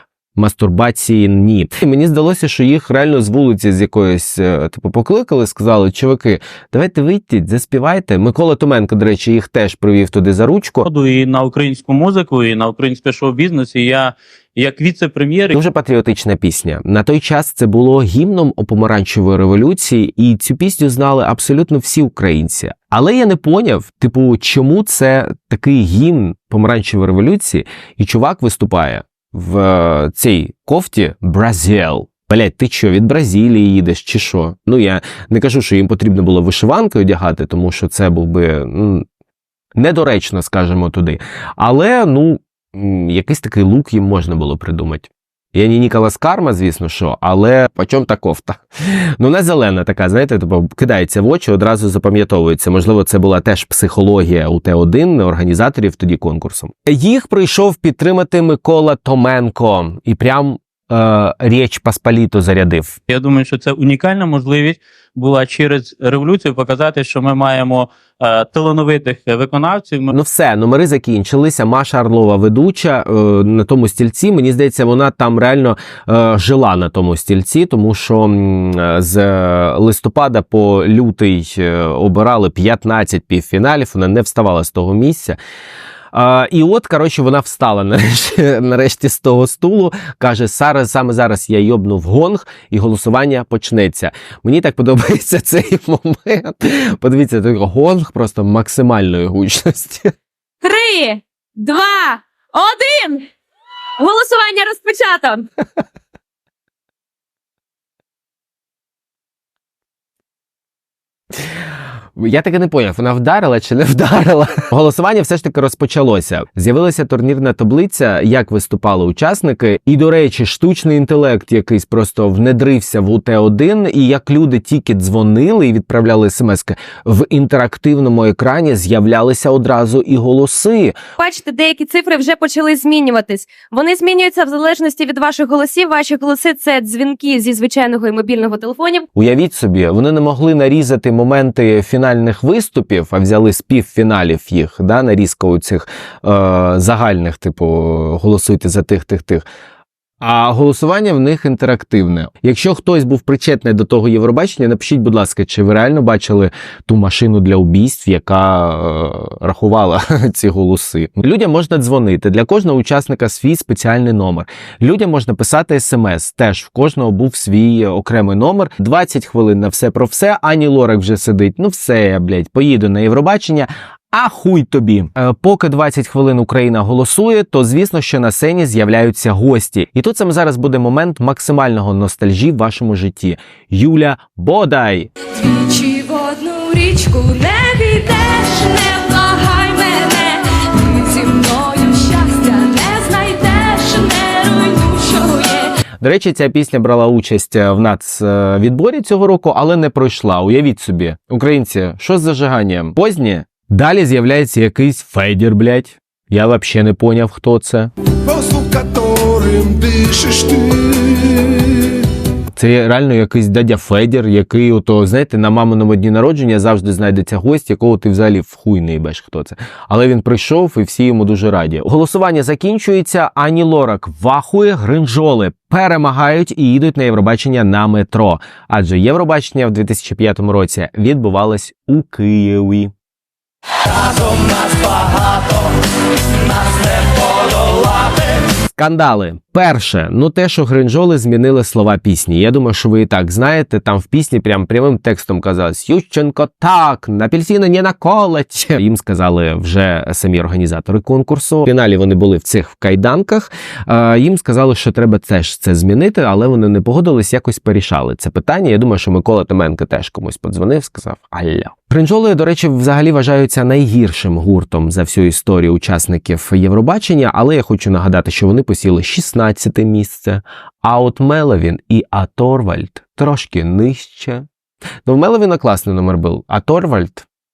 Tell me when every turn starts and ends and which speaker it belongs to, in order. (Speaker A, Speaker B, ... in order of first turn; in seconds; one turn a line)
Speaker A: 0.3-10.9
Speaker B: 10.8-15.6
Speaker A: 15.5-39.0
Speaker A: 39.8-63.0
Speaker B: 63.1-70.1
Speaker A: 70.1-85.4
Speaker A: 86.1-100.1
Speaker C: 100.6-103.3
Speaker C: 104.0-105.5
Speaker A: 112.2-131.0
Speaker C: 131.2-139.1
Speaker A: 139.2-149.4
Speaker A: 150.2-185.1
Speaker D: 185.3-195.7
Speaker A: 196.0-207.9
Speaker E: 208.3-210.8
Speaker A: 212.6-232.9
Speaker A: 238.7-274.5
Speaker A: 275.1-277.2